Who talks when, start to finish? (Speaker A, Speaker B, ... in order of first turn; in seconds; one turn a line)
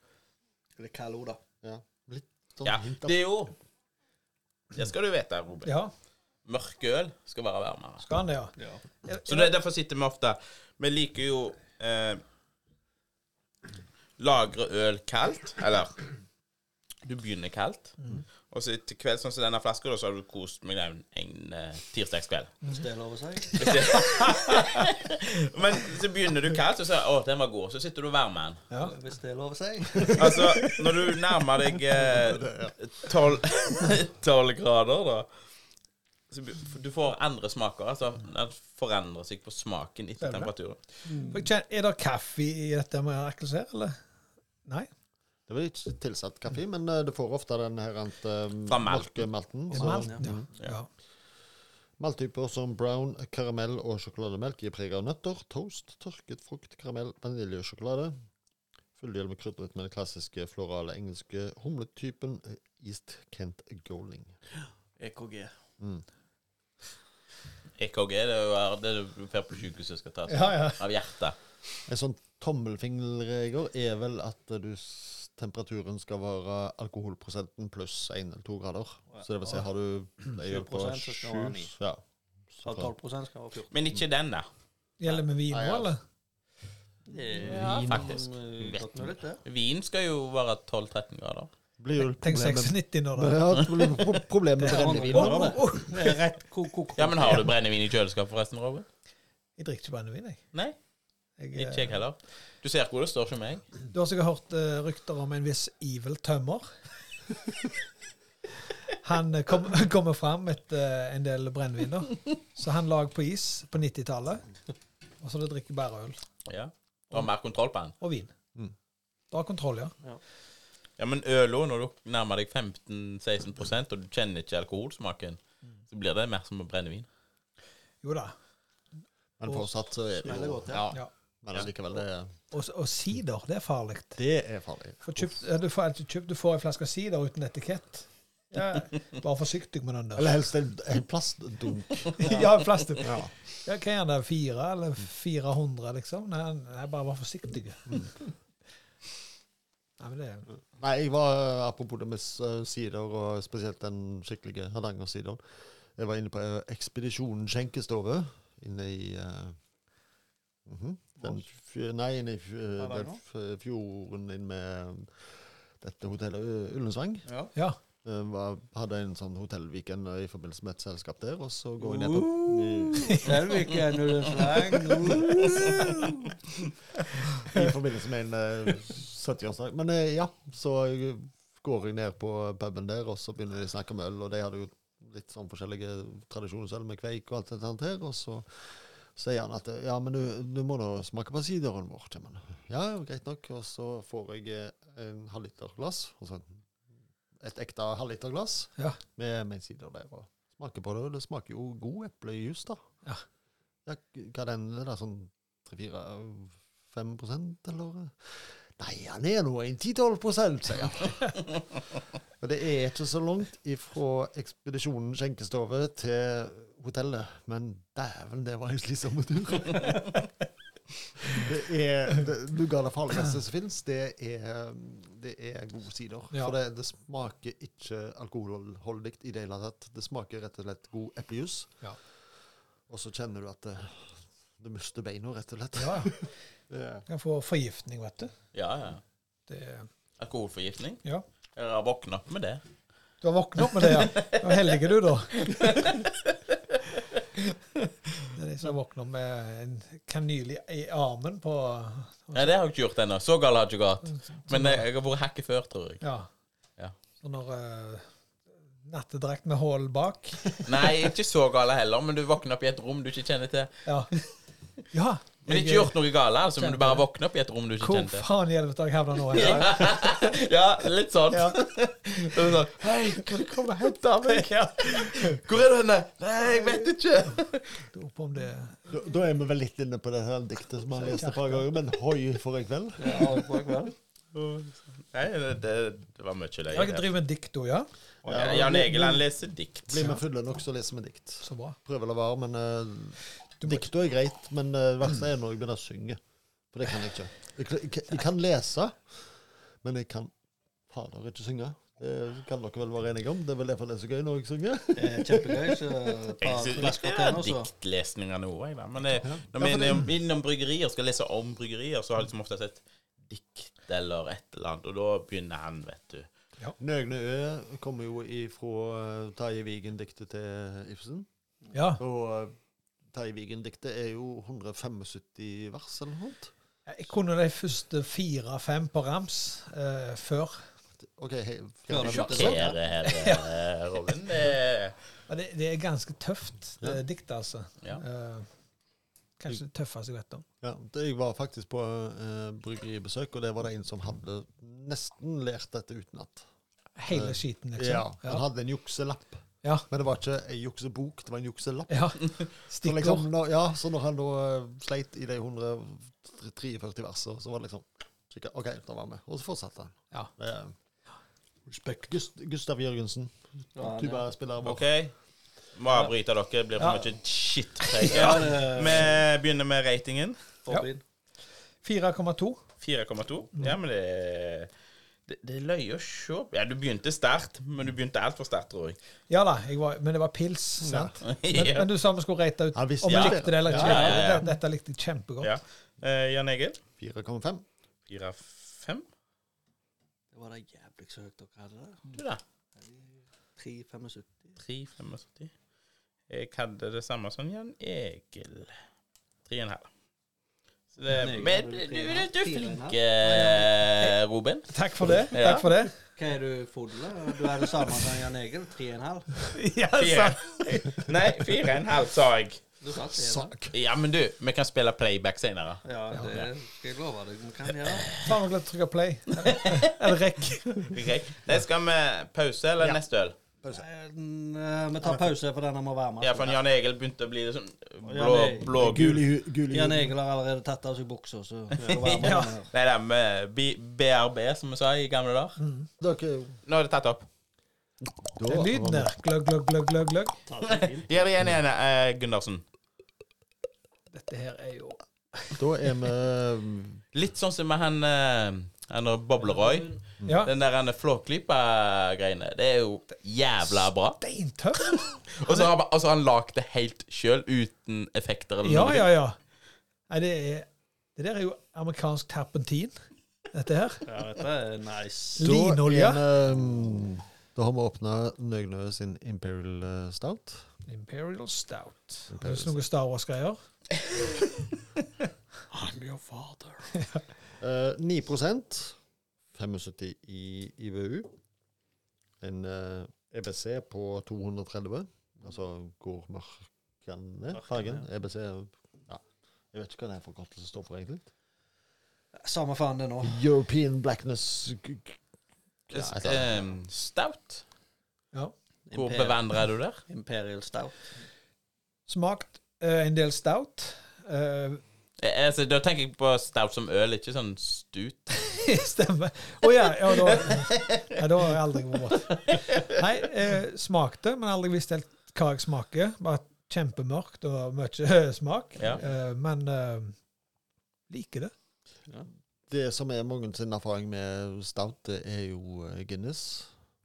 Speaker A: 0.8-1.4
Speaker B: 1.6-3.3
Speaker C: 2.6-3.5
Speaker C: 4.7-5.7
Speaker D: 5.6-5.9
Speaker C: 6.4-8.1
Speaker D: 8.0-9.5
Speaker A: 8.6-8.8
Speaker C: 9.2-12.2
Speaker C: 14.2-16.0
Speaker C: 17.0-18.0
Speaker C: 18.5-22.6
Speaker A: 22.6-23.8
Speaker C: 23.5-28.6
Speaker D: 23.6-24.8
Speaker A: 28.8-30.4
Speaker C: 30.1-35.3
Speaker D: 30.3-30.8
Speaker B: 32.0-32.7
Speaker C: 36.3-40.8
Speaker D: 40.2-40.5
Speaker A: 41.1-41.5
Speaker D: 41.1-44.0
Speaker B: 45.5-50.5
Speaker C: 48.7-49.1
Speaker D: 49.7-50.9
Speaker A: 49.7-50.4
Speaker B: 52.0-58.1
Speaker B: 59.0-64.3
Speaker A: 64.6-65.5
Speaker B: 65.8-66.0
Speaker C: 67.8-71.3
Speaker D: 70.3-70.8
Speaker B: 71.9-82.0
Speaker A: 80.4-81.7
Speaker B: 82.5-82.9
Speaker A: 82.6-83.7
Speaker C: 83.7-84.5
Speaker D: 85.0-86.0
Speaker B: 85.5-85.9
Speaker A: 87.1-89.4
Speaker C: 87.4-88.8
Speaker B: 87.4-88.3
Speaker C: 89.4-91.5
Speaker B: 91.8-95.8
Speaker D: 92.2-93.4
Speaker C: 93.6-94.2
Speaker D: 94.6-96.1
Speaker A: 94.6-97.5
Speaker C: 97.0-98.8
Speaker D: 99.6-100.4
Speaker D: 101.4-102.0
Speaker C: 101.5-103.7
Speaker D: 103.9-106.7
Speaker D: 109.0-114.4
Speaker D: 115.2-116.2
Speaker C: 116.5-117.9
Speaker D: 118.0-118.3
Speaker D: 119.3-119.9
Speaker C: 121.0-125.4
Speaker C: 125.9-127.1
Speaker D: 128.0-128.3
Speaker B: 129.4-130.8
Speaker D: 129.4-129.7
Speaker A: 130.2-130.9
Speaker C: 130.7-131.0
Speaker B: 131.4-132.3
Speaker D: 132.5-134.2
Speaker B: 134.2-135.3
Speaker D: 135.0-140.3
Speaker B: 140.2-142.3
Speaker D: 142.2-148.2
Speaker B: 143.0-143.3
Speaker D: 150.0-150.5
Speaker B: 150.7-159.6
Speaker B: 160.7-167.2
Speaker A: 162.8-163.2
Speaker A: 167.2-167.5
Speaker B: 168.0-173.5
Speaker A: 171.8-176.0
Speaker B: 175.1-175.4
Speaker D: 175.8-176.1
Speaker B: 177.4-196.6
Speaker B: 197.4-202.8
Speaker B: 203.8-211.4
Speaker B: 212.4-220.2
Speaker B: 221.2-231.8
Speaker B: 232.9-237.0
Speaker D: 235.7-236.1
Speaker D: 237.1-238.3
Speaker C: 238.5-239.0
Speaker D: 239.5-239.9
Speaker C: 240.2-241.0
Speaker C: 241.5-242.6
Speaker D: 243.2-245.9
Speaker C: 243.8-244.7
Speaker C: 245.4-246.3
Speaker D: 248.3-252.6
Speaker C: 252.3-256.0
Speaker D: 254.1-254.8
Speaker D: 256.0-256.3
Speaker D: 257.2-258.1
Speaker D: 258.8-260.6
Speaker C: 260.6-263.7
Speaker D: 263.8-264.1
Speaker D: 264.9-265.9
Speaker C: 265.4-268.3
Speaker D: 266.6-267.0
Speaker D: 267.8-270.3
Speaker C: 269.3-277.8
Speaker D: 271.3-271.6
Speaker D: 274.3-275.4
Speaker D: 276.6-276.9
Speaker D: 277.9-278.9
Speaker B: 278.9-283.4
Speaker D: 280.9-281.6
Speaker A: 283.0-283.9
Speaker C: 284.3-287.1
Speaker D: 286.7-287.9
Speaker A: 288.2-288.9
Speaker B: 288.3-289.2
Speaker C: 288.3-290.1
Speaker B: 289.9-296.2
Speaker D: 291.4-291.8
Speaker B: 296.7-300.3
Speaker B: 300.9-305.8
Speaker A: 304.9-307.7
Speaker C: 306.4-316.3
Speaker B: 309.2-310.1
Speaker B: 316.8-321.3
Speaker D: 321.7-322.0
Speaker B: 322.0-322.5
Speaker B: 323.1-326.5
Speaker D: 326.9-330.7
Speaker B: 331.0-332.7
Speaker A: 331.9-332.8
Speaker C: 332.0-334.9
Speaker D: 333.0-333.6
Speaker D: 335.3-338.5
Speaker D: 339.4-340.4
Speaker B: 340.6-346.4
Speaker D: 346.9-348.4
Speaker B: 347.1-360.7
Speaker D: 351.9-353.3
Speaker A: 361.7-362.0
Speaker B: 361.9-364.9
Speaker A: 363.8-364.2
Speaker C: 364.6-365.1
Speaker C: 365.8-370.4
Speaker D: 366.8-367.1
Speaker D: 367.9-368.5
Speaker A: 368.0-369.1
Speaker A: 370.6-371.0
Speaker D: 371.8-372.6
Speaker C: 372.8-374.7
Speaker C: 375.3-379.0
Speaker D: 379.3-385.5
Speaker B: 380.8-381.1
Speaker C: 381.2-381.9
Speaker B: 382.7-384.2
Speaker C: 383.1-384.5
Speaker C: 385.4-386.8
Speaker B: 387.0-387.6
Speaker C: 388.1-389.1
Speaker A: 390.3-392.1
Speaker C: 392.1-392.4
Speaker A: 392.8-394.6
Speaker C: 394.6-395.5
Speaker C: 396.3-398.8
Speaker C: 399.4-399.9
Speaker C: 400.9-404.7
Speaker A: 401.1-403.6
Speaker D: 404.7-405.9
Speaker C: 405.3-405.7
Speaker A: 406.1-409.4
Speaker D: 409.5-411.1
Speaker C: 409.9-412.6
Speaker A: 412.8-413.5
Speaker B: 413.1-413.7
Speaker C: 413.7-416.5
Speaker A: 415.8-418.2
Speaker D: 418.2-421.0
Speaker C: 419.4-420.0
Speaker C: 420.8-423.4
Speaker A: 423.7-426.6
Speaker C: 426.2-429.2
Speaker A: 428.0-428.8
Speaker B: 428.7-430.1
Speaker A: 429.7-432.7
Speaker C: 431.8-435.6
Speaker D: 432.2-432.5
Speaker D: 435.6-435.9
Speaker B: 436.0-436.6
Speaker C: 436.7-437.2
Speaker B: 438.2-439.1
Speaker D: 438.5-440.3
Speaker A: 440.5-441.3
Speaker C: 440.6-442.6
Speaker D: 444.1-445.5
Speaker B: 445.6-447.0
Speaker C: 447.1-454.2
Speaker A: 449.4-450.0
Speaker D: 450.2-450.5
Speaker D: 454.2-455.7
Speaker C: 454.8-459.1
Speaker D: 458.6-459.4
Speaker D: 460.1-462.9
Speaker D: 463.5-464.1
Speaker A: 464.1-465.5
Speaker D: 465.4-466.2
Speaker B: 465.4-470.6
Speaker D: 470.9-473.6
Speaker B: 472.3-472.8
Speaker A: 475.7-476.9
Speaker D: 476.9-477.2
Speaker B: 477.6-478.9
Speaker B: 479.5-481.3
Speaker B: 482.4-491.3
Speaker A: 487.5-488.0
Speaker A: 492.3-493.4
Speaker B: 493.2-495.2
Speaker B: 495.9-496.6
Speaker C: 495.9-497.6
Speaker A: 498.9-499.4
Speaker C: 498.9-500.0
Speaker A: 500.1-501.1
Speaker D: 502.1-504.8
Speaker C: 505.2-508.4
Speaker D: 508.5-520.1
Speaker C: 510.1-511.0
Speaker C: 512.4-512.8
Speaker D: 521.1-521.5
Speaker B: 522.7-526.7